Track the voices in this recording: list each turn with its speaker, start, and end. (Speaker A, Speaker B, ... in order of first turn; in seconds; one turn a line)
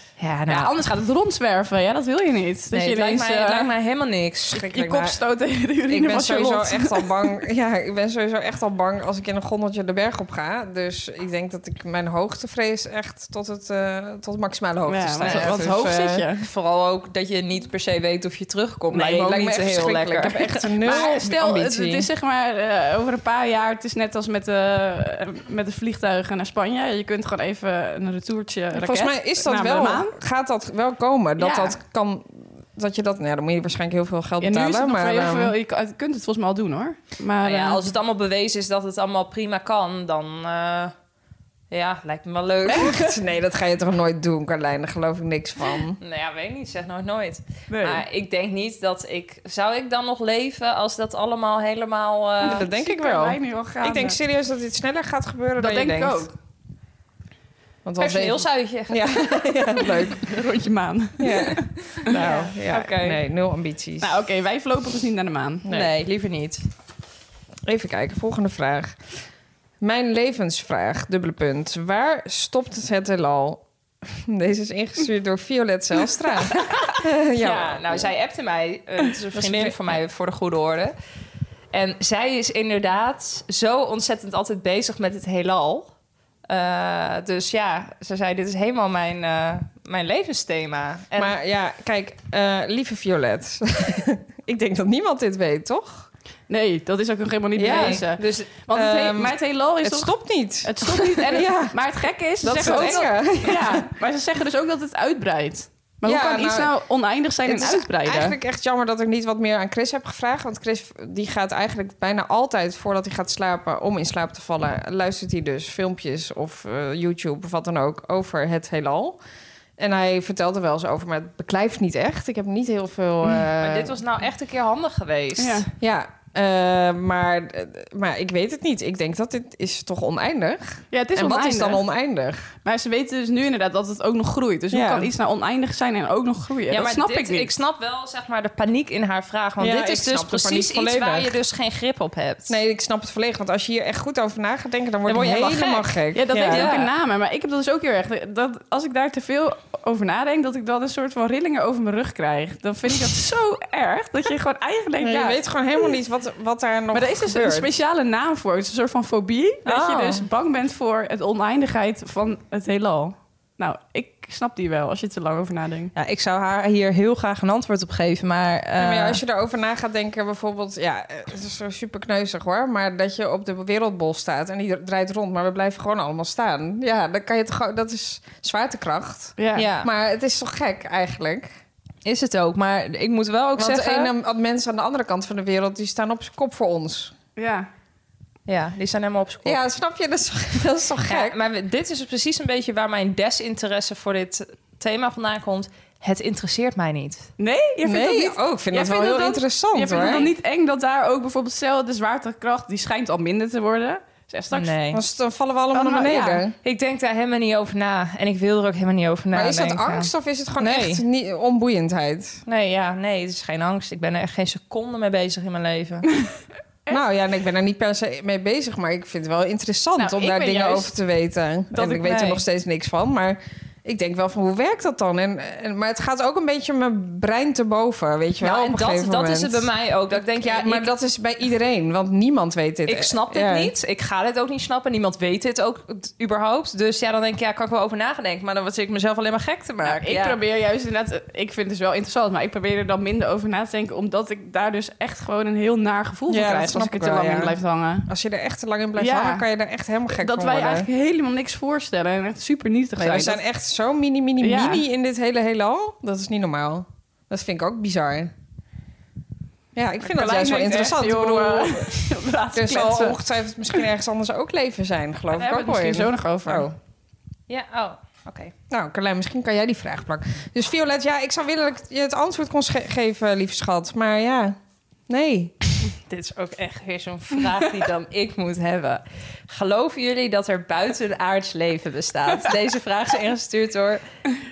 Speaker A: 0.2-0.8
Speaker B: 0.5-3.7
Speaker A: 2.7-4.6
Speaker C: 4.5-5.2
Speaker B: 4.6-7.3
Speaker C: 5.9-16.2
Speaker B: 14.9-16.5
Speaker A: 15.2-15.6
Speaker A: 16.4-21.3
Speaker C: 18.9-22.1
Speaker B: 20.9-30.1
Speaker C: 28.8-35.5
Speaker A: 31.4-31.8
Speaker B: 34.4-37.8
Speaker A: 37.4-41.0
Speaker A: 41.7-43.2
Speaker C: 42.7-46.0
Speaker A: 46.0-52.7
Speaker B: 47.7-48.0
Speaker B: 52.4-54.2
Speaker C: 52.4-56.3
Speaker B: 55.6-56.3
Speaker C: 57.9-60.4
Speaker A: 58.0-59.4
Speaker B: 60.2-62.2
Speaker C: 61.2-64.2
Speaker A: 62.0-63.2
Speaker B: 64.0-65.7
Speaker A: 65.7-66.7
Speaker C: 67.7-69.0
Speaker C: 69.8-78.1
Speaker A: 77.4-81.0
Speaker C: 79.4-79.7
Speaker A: 81.7-85.9
Speaker A: 86.5-91.3
Speaker C: 91.2-96.1
Speaker B: 96.5-108.4
Speaker C: 97.6-98.1
Speaker A: 97.6-98.5
Speaker C: 98.7-101.8
Speaker C: 102.4-103.9
Speaker A: 102.5-103.1
Speaker C: 106.0-106.7
Speaker C: 107.5-119.2
Speaker C: 119.8-124.0
Speaker A: 123.6-125.7
Speaker B: 125.4-125.7
Speaker C: 125.8-132.5
Speaker B: 130.9-131.8
Speaker B: 132.7-137.5
Speaker C: 134.7-135.1
Speaker A: 136.7-142.6
Speaker C: 139.6-141.3
Speaker C: 142.5-146.7
Speaker A: 145.1-146.9
Speaker B: 146.1-155.4
Speaker C: 155.0-157.7
Speaker B: 156.9-165.9
Speaker A: 159.7-160.2
Speaker A: 165.9-169.2
Speaker C: 168.8-181.5
Speaker B: 179.4-179.7
Speaker A: 179.6-179.9
Speaker A: 182.0-184.1
Speaker C: 183.6-187.1
Speaker B: 187.4-187.7
Speaker A: 188.5-189.6
Speaker C: 189.4-191.4
Speaker A: 191.1-197.3
Speaker B: 197.4-204.8
Speaker C: 197.8-200.3
Speaker A: 199.9-200.3
Speaker A: 204.5-205.0
Speaker C: 204.9-206.6
Speaker B: 205.7-206.4
Speaker A: 206.6-211.0
Speaker C: 209.3-212.4
Speaker A: 212.5-216.1
Speaker C: 216.9-233.7
Speaker B: 220.0-220.9
Speaker B: 221.7-222.0
Speaker A: 221.9-222.4
Speaker A: 228.4-230.9
Speaker A: 232.9-240.4
Speaker B: 239.8-248.1
Speaker C: 246.3-247.5
Speaker C: 248.1-250.9
Speaker B: 249.0-249.5
Speaker B: 250.1-253.4
Speaker C: 253.0-258.3
Speaker B: 254.4-254.8
Speaker C: 259.8-266.8
Speaker B: 260.1-263.2
Speaker B: 265.3-266.7
Speaker A: 267.5-268.5
Speaker C: 268.7-274.6
Speaker C: 275.1-275.5
Speaker A: 276.0-284.0